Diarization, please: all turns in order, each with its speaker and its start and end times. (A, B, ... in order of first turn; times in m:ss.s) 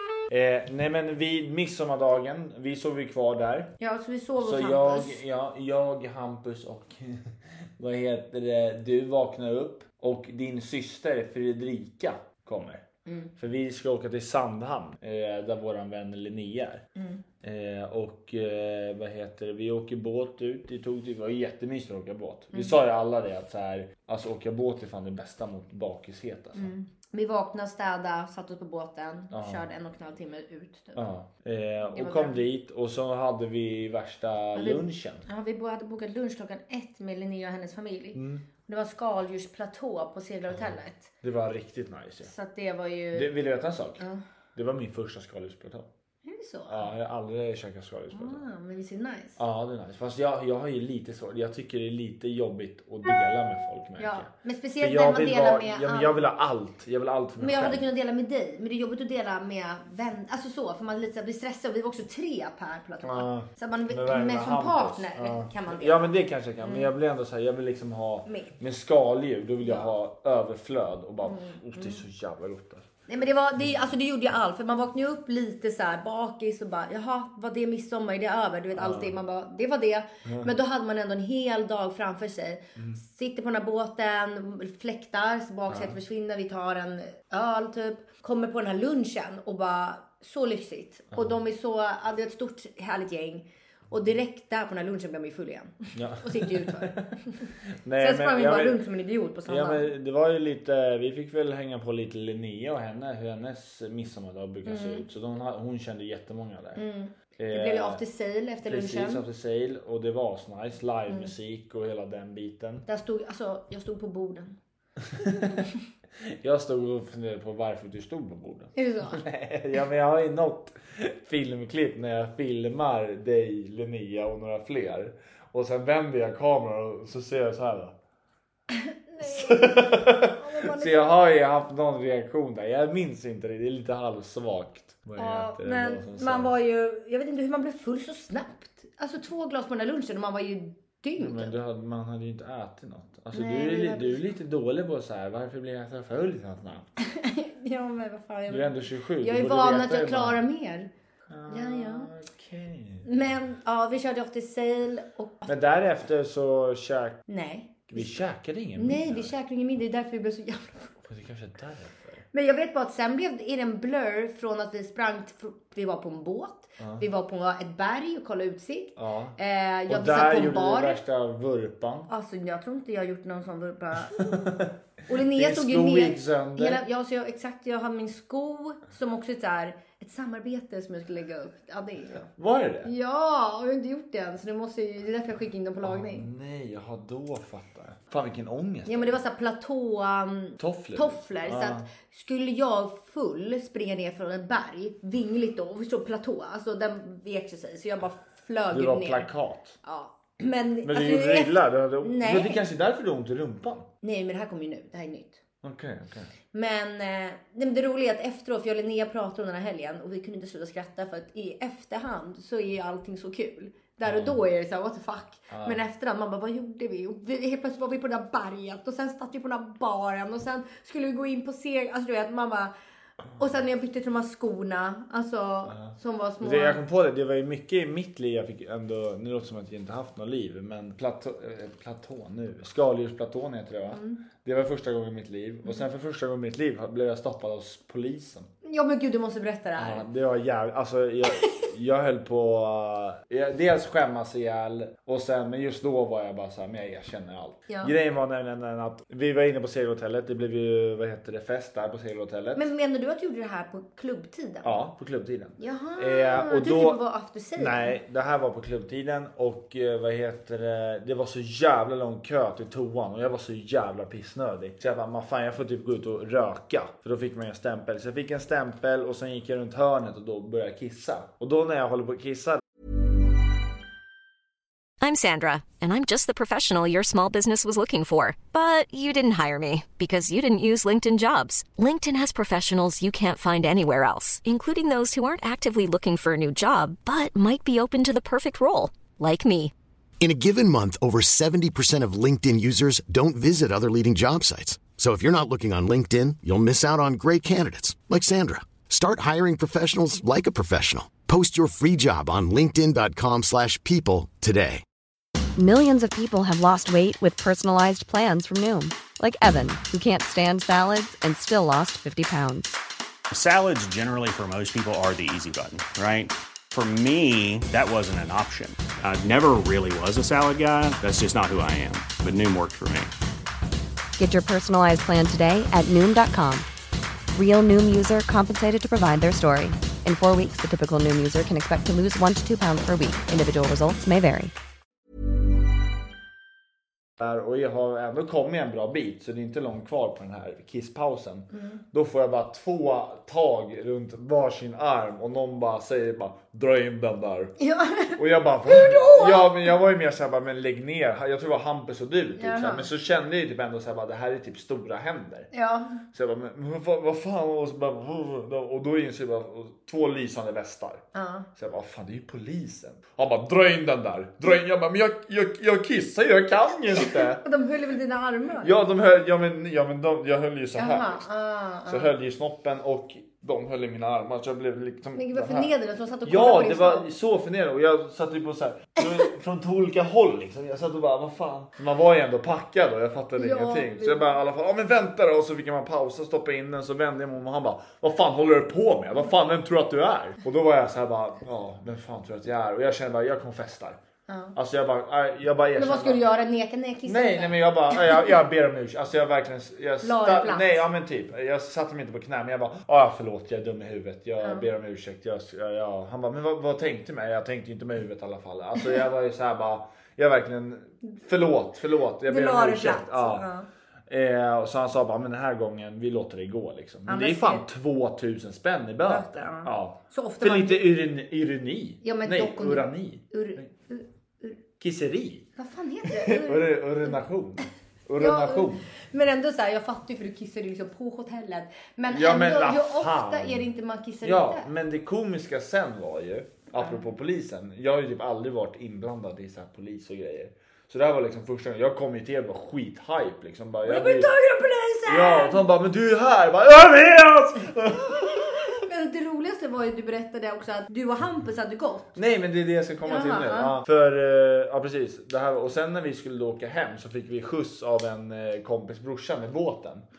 0:00.3-0:03.7 A
0:03.8-0:05.2 B
0:04.4-0:12.8 A
0:13.1-0:13.3 B
0:13.4-0:16.9 A
0:17.0-0:17.2 B
0:17.4-0:26.7 A
0:26.6-0:31.1 B
0:29.3-0:29.6 A
0:31.0-0:35.2 A
0:31.9-0:32.4 B
0:34.6-0:41.1 B
0:38.2-0:38.4 A
0:40.5-0:42.3 A
0:42.2-0:43.3 B
0:43.1-0:44.0 A
0:44.6-0:45.9 A
0:46.2-0:46.9 B
0:46.7-0:48.4 A
0:48.1-0:49.4 B
0:49.4-0:57.8 A
0:54.0-0:56.1 B
0:57.4-1:06.9 B
1:03.0-1:12.9 A
1:08.3-1:08.6 B
1:09.6-1:09.9 B
1:11.2-1:12.0 B
1:13.1-1:39.9 B
1:13.6-1:13.9 A
1:18.8-1:19.1 A
1:20.2-1:20.5 A
1:25.7-1:26.0 A
1:35.9-1:37.1 A
1:37.7-1:38.8 A
1:39.5-1:46.8 A
1:44.6-1:45.1 B
1:46.8-1:49.2 B
1:47.4-1:48.0 A
1:48.7-1:52.9 A
1:52.9-1:54.6 B
1:55.1-1:55.6 A
1:55.2-1:55.7 B
1:56.2-2:08.0 A
1:58.8-1:59.2 B
2:08.7-2:11.1 B
2:09.2-2:16.6 A
2:15.2-2:21.6 B
2:21.2-2:26.9 A
2:23.3-2:24.3 B
2:27.0-2:30.9 B
2:28.5-2:30.4 A
2:31.3-2:33.1 A
2:31.5-2:32.1 B
2:33.0-2:35.6 B
2:35.5-2:37.2 A
2:37.3-2:38.2 B
2:37.9-2:39.4 A
2:38.8-2:41.0 B
2:41.0-2:42.2 A
2:42.3-2:51.0 B
2:46.8-2:47.1 A
2:49.0-2:52.1 A
2:52.1-2:54.4 B
2:54.1-2:56.8 A
2:55.1-3:02.3 B
3:02.4-3:02.9 A
3:02.8-3:06.3 B
3:05.8-3:09.2 A
3:08.9-3:19.3 B
3:10.6-3:11.9 A
3:18.7-3:19.8 A
3:19.8-3:22.6 B
3:20.8-3:23.9 A
3:24.0-3:25.4 B
3:25.6-3:26.3 A
3:26.5-3:42.7 B
3:34.0-3:34.4 A
3:35.5-3:35.8 A
3:43.4-3:46.8 B
3:45.7-3:58.5 A
3:53.9-3:54.2 B
3:58.6-4:00.1 B
3:59.8-4:12.7 A
4:07.7-4:07.9 B
4:12.6-4:14.8 B
4:14.6-4:17.0 A
4:15.6-4:18.0 B
4:17.6-4:32.6 A
4:35.0-4:49.7 C
4:50.2-5:04.8 D
5:05.6-5:12.8 E
5:13.3-5:23.1 F
5:24.2-5:26.6 E
5:27.4-5:34.5 E
5:37.2-5:47.5 A
5:41.5-5:41.8 B
5:47.6-5:49.7 B
5:48.2-5:55.5 A
5:52.4-5:52.9 B
5:55.5-5:56.0 B
5:56.1-6:01.0 A
6:01.1-6:01.5 B
6:01.6-6:07.4 A
6:07.0-6:08.8 B
6:08.6-6:11.2 A
6:10.8-6:12.1 B
6:11.9-6:15.7 A
6:15.2-6:17.1 B
6:16.2-6:34.0 A
6:23.4-6:24.3 B
6:34.3-6:34.6 B
6:34.5-6:36.3 A
6:35.8-6:38.2 B
6:37.1-6:53.5 A
6:40.0-6:40.8 B
6:44.4-6:44.7 B
6:52.2-6:53.7 B
6:54.1-7:03.7 A
6:57.1-6:57.6 B
6:59.0-7:00.9 B
7:02.0-7:04.6 B
7:04.8-7:05.5 A
7:05.6-7:07.2 B
7:06.1-7:08.9 A
7:08.2-7:14.7 B
7:12.1-7:13.7 A
7:14.2-7:24.3 A
7:23.8-7:25.6 B
7:25.1-7:28.6 A
7:28.0-7:32.2 B
7:32.2-7:40.1 A
7:33.0-7:33.7 B